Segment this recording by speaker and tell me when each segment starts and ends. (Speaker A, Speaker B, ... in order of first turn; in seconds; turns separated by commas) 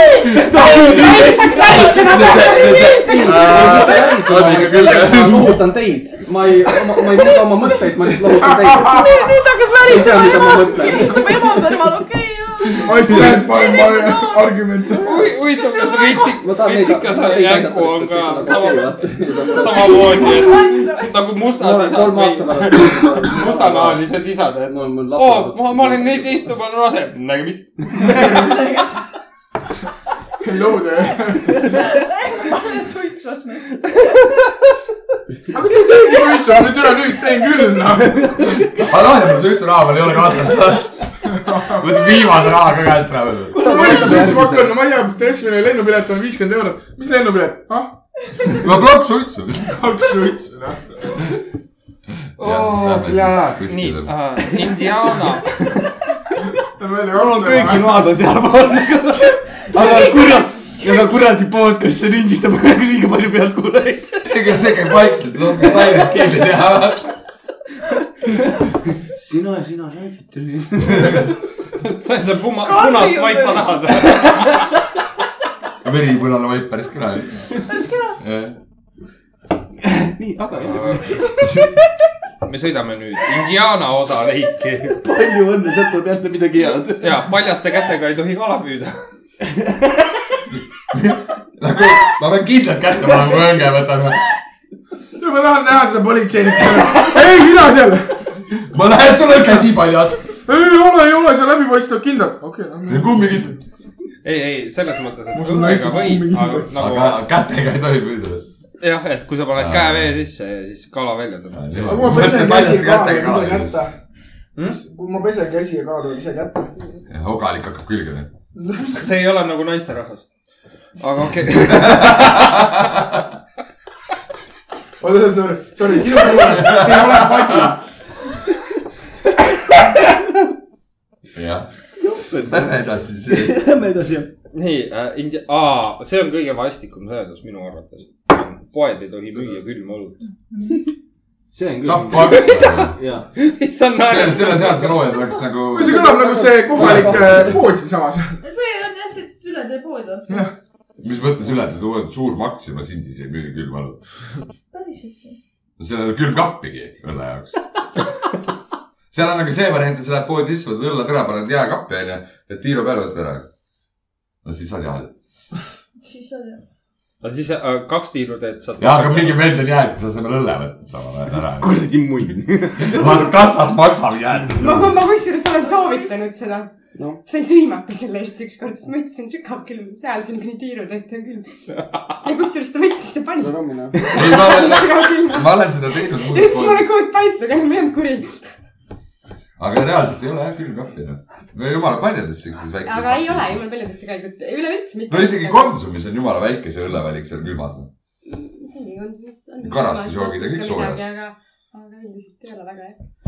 Speaker A: 0.1-3.5, Speaker B: 0.2-2.1, Speaker C: 2.0-5.8, Speaker D: 2.9-9.2, Speaker E: 8.4-9.3, Speaker F: 8.8-16.4, Speaker D: 9.8-11.3, Speaker E: 11.2-11.4, Speaker E: 12.7-15.4, Speaker C: 13.1-13.4, Speaker G: 15.0-28.3, Speaker D: 16.4-20.4, Speaker F: 19.5-21.1, Speaker D: 21.6-24.1, Speaker D: 24.6-26.5, Speaker F: 28.2-28.9, Speaker E: 30.4-31.9, Speaker F: 31.7-34.1, Speaker E: 35.5-38.7, Speaker B: 38.2-38.5, Speaker C: 38.8-41.0, Speaker E: 41.3-42.3, Speaker C: 41.7-44.3, Speaker B: 43.5-44.7, Speaker E: 43.6-48.5, Speaker D: 43.6-44.7, Speaker C: 48.5-49.8, Speaker E: 49.7-51.2, Speaker C: 52.4-54.1, Speaker G: 52.4-55.6, Speaker B: 55.6-55.9, Speaker E: 56.8-58.1, Speaker B: 57.1-64.3, Speaker A: 60.1-60.6, Speaker C: 64.2-67.1, Speaker B: 69.2-71.3, Speaker G: 71.7-74.6, Speaker F: 72.6-74.1, Speaker C: 75.8-77.5, Speaker F: 77.7-78.2, Speaker C: 78.2-78.6, Speaker B: 79.8-81.5, Speaker G: 80.6-81.1, Speaker C: 81.4-81.7, Speaker G: 82.4-85.0, Speaker B: 84.9-87.2, Speaker G: 87.0-89.0, Speaker B: 89.5-90.2, Speaker C: 90.9-94.2, Speaker E: 95.2-98.2, Speaker C: 98.5-100.3, Speaker E: 100.5-103.6, Speaker C: 102.8-103.6, Speaker G: 104.2-107.2, Speaker E: 105.3-106.7, Speaker C: 106.7-108.4, Speaker G: 108.8-112.2, Speaker C: 109.5-110.1, Speaker C: 111.5-113.7, Speaker E: 111.8-114.0, Speaker E: 114.6-116.7, Speaker C: 117.1-118.3, Speaker E: 118.5-119.1, Speaker G: 118.9-120.3, Speaker G: 121.0-122.7, Speaker C: 121.7-122.8, Speaker E: 125.0-127.8, Speaker C: 126.4-127.7, Speaker C: 131.3-131.7, Speaker B: 132.0-134.3, Speaker C: 132.5-133.6, Speaker G: 134.5-140.2, Speaker B: 141.5-143.3, Speaker C: 141.8-143.0, Speaker G: 143.4-145.1, Speaker C: 144.0-146.2, Speaker E: 145.7-148.4, Speaker D: 145.8-147.6, Speaker C: 146.7-147.6, Speaker F: 148.4-150.5, Speaker C: 151.0-154.0, Speaker F: 154.7-155.4, Speaker C: 155.8-157.5, Speaker C: 159.1-163.5, Speaker C: 164.4-165.1, Speaker F: 166.0-166.6, Speaker G: 167.2-169.5, Speaker C: 168.8-171.8, Speaker B: 171.5-173.3, Speaker C: 172.8-175.0, Speaker A: 174.6-176.7, Speaker F: 175.7-176.1, Speaker D: 176.9-177.2, Speaker A: 177.2-181.6, Speaker A: 182.2-188.4, Speaker D: 183.4-184.1, Speaker C: 184.1-186.9, Speaker C: 189.6-193.7, Speaker A: 192.8-195.8, Speaker C: 195.1-197.9, Speaker A: 198.2-203.0, Speaker C: 199.6-201.1